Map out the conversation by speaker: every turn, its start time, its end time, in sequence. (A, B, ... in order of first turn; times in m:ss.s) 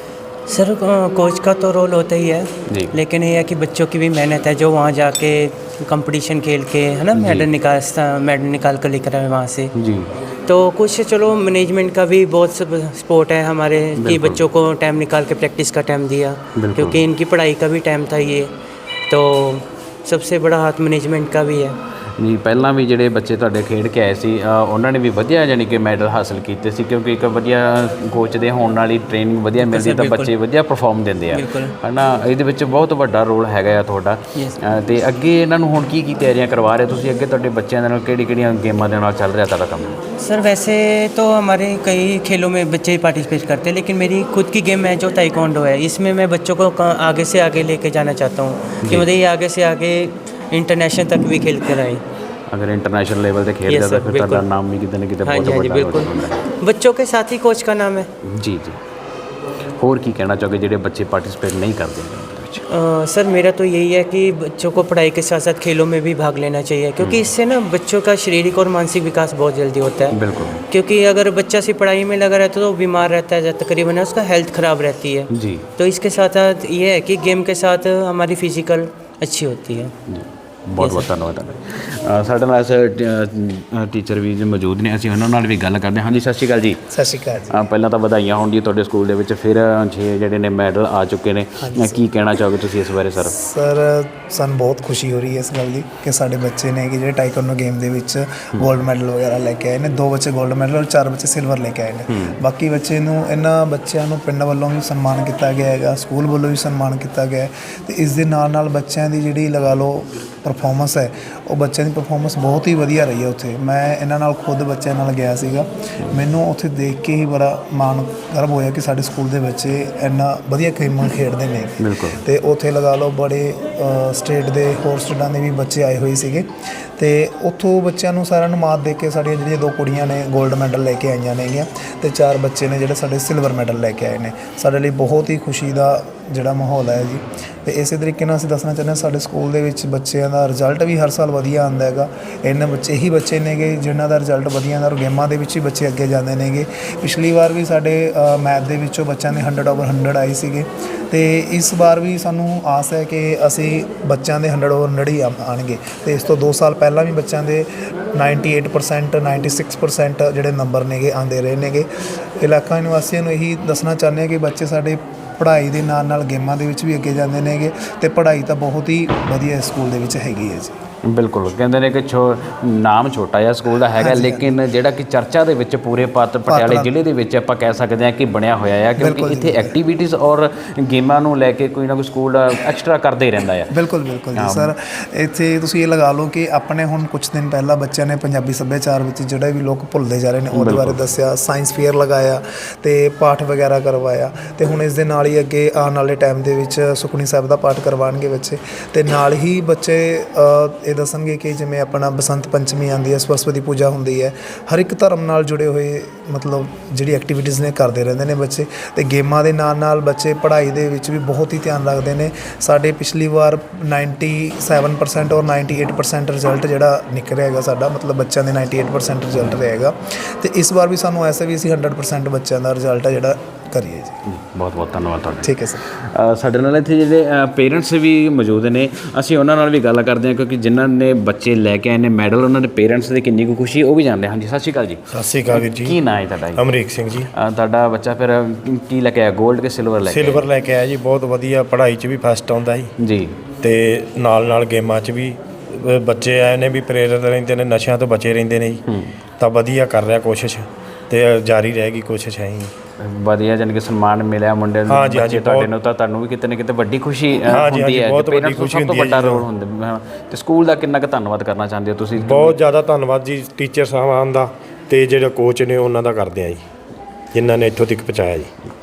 0:00.5-0:09.7 A
0:02.7-0:02.9 B
0:07.2-0:07.5 B
0:09.8-0:10.1 B
0:10.5-0:18.5 A
0:14.0-0:14.4 B
0:16.6-0:17.0 B
0:19.1-0:21.8 A
0:22.2-0:40.0 B
0:29.6-0:30.3 A
0:31.3-0:31.7 A
0:40.2-0:52.0 A
0:52.5-0:56.4 B
0:53.7-0:54.5 A
0:55.2-0:58.1 A
0:58.2-0:58.8 B
0:59.8-1:02.6 B
1:02.7-1:19.9 A
1:10.1-1:10.6 B
1:15.3-1:15.6 B
1:20.1-1:26.8 B
1:20.8-1:21.1 A
1:26.9-1:27.6 C
1:27.5-1:33.3 B
1:31.6-1:32.0 C
1:33.2-2:41.9 C
1:42.1-1:42.4 B
2:01.8-2:02.2 B
2:42.4-2:50.8 C
2:51.0-3:03.7 B
2:54.0-2:54.6 C
2:56.5-2:56.9 C
2:59.0-2:59.8 C
3:03.7-3:44.2 C
3:04.4-3:04.7 B
3:10.5-3:11.0 B
3:44.3-3:56.7 B
3:45.4-3:45.8 C
3:55.1-3:56.0 D
3:56.6-3:57.3 D
3:57.3-4:00.4 B
4:00.0-4:02.9 D
4:03.0-4:03.4 B
4:03.6-4:08.8 D
4:08.9-4:09.1 B
4:09.4-4:12.7 D
4:13.0-4:22.6 B
4:14.9-4:15.7 D
4:17.5-4:19.5 D
4:22.2-4:26.6 D
4:27.3-4:28.5 D